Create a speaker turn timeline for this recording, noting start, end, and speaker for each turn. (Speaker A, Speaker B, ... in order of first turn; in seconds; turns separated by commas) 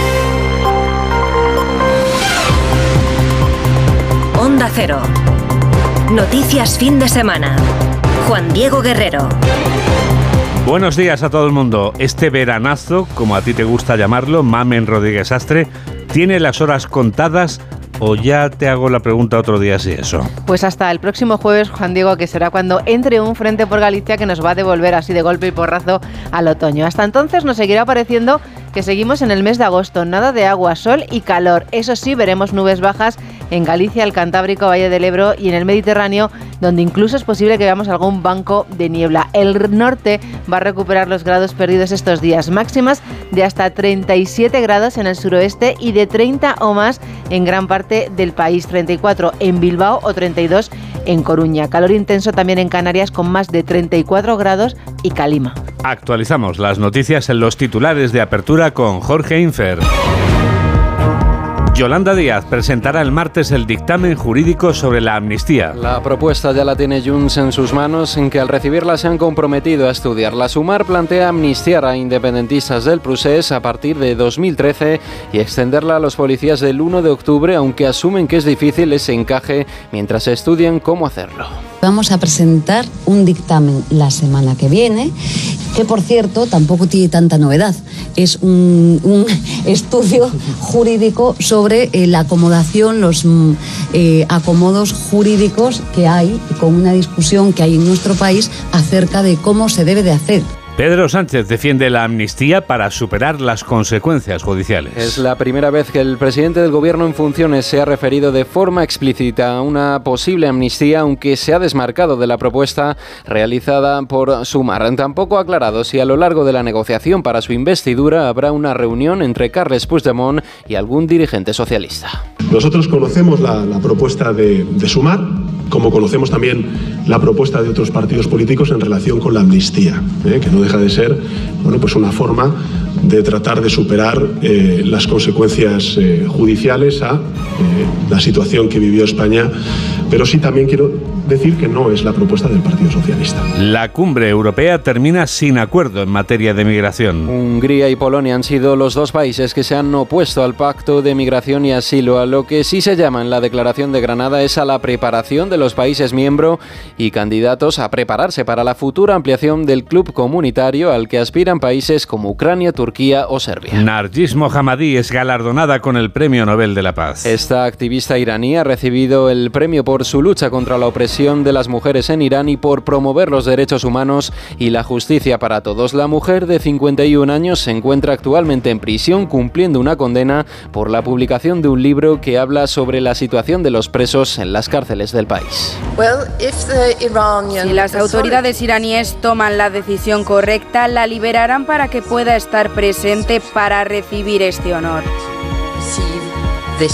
Speaker A: 4.3-5.1, Speaker A: 6.1-7.6, Speaker A: 8.2-9.4, Speaker B: 10.6-20.3, Speaker C: 20.5-55.6, Speaker B: 55.8-59.8, Speaker B: 61.7-65.8, Speaker D: 65.8-81.6, Speaker E: 81.8-85.1, Speaker E: 85.7-100.5, Speaker B: 100.8-105.2, Speaker D: 105.0-122.2, Speaker F: 122.5-139.5, Speaker F: 140.1-143.4, Speaker B: 143.6-147.3, Speaker D: 147.3-163.8, Speaker B: 163.7-167.3, Speaker D: 167.2-185.8, Speaker G: 187.6-195.1